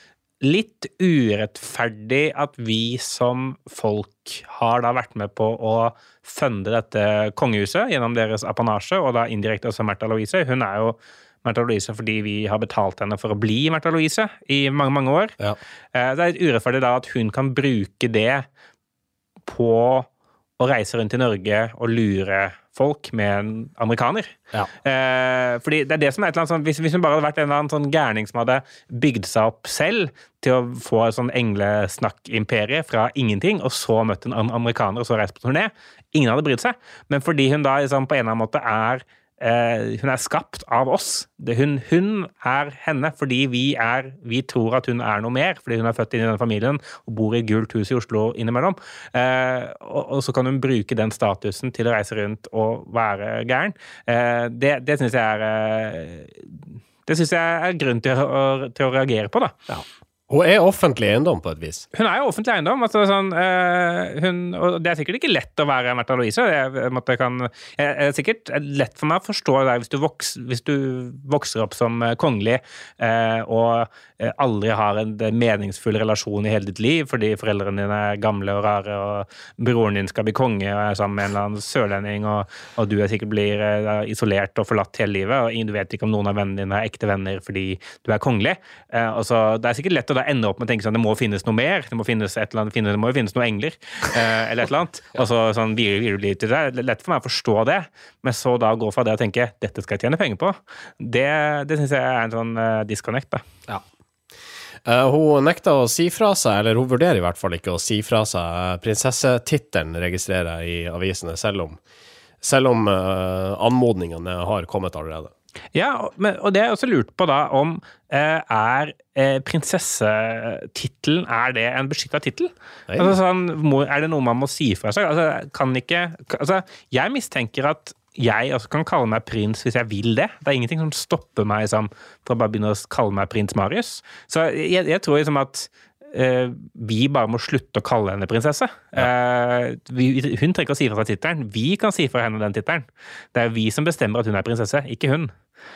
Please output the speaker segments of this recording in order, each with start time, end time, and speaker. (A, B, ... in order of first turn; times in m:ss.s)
0:00.4-0:15.4 A
0:15.9-0:18.4 A
0:19.5-0:20.1 A
0:20.6-0:59.5 A
0:59.7-1:01.8 B
1:01.9-1:43.4 A
1:44.8-1:51.8 B
1:52.4-1:55.3 B
1:55.7-2:25.3 A
2:02.9-2:03.2 B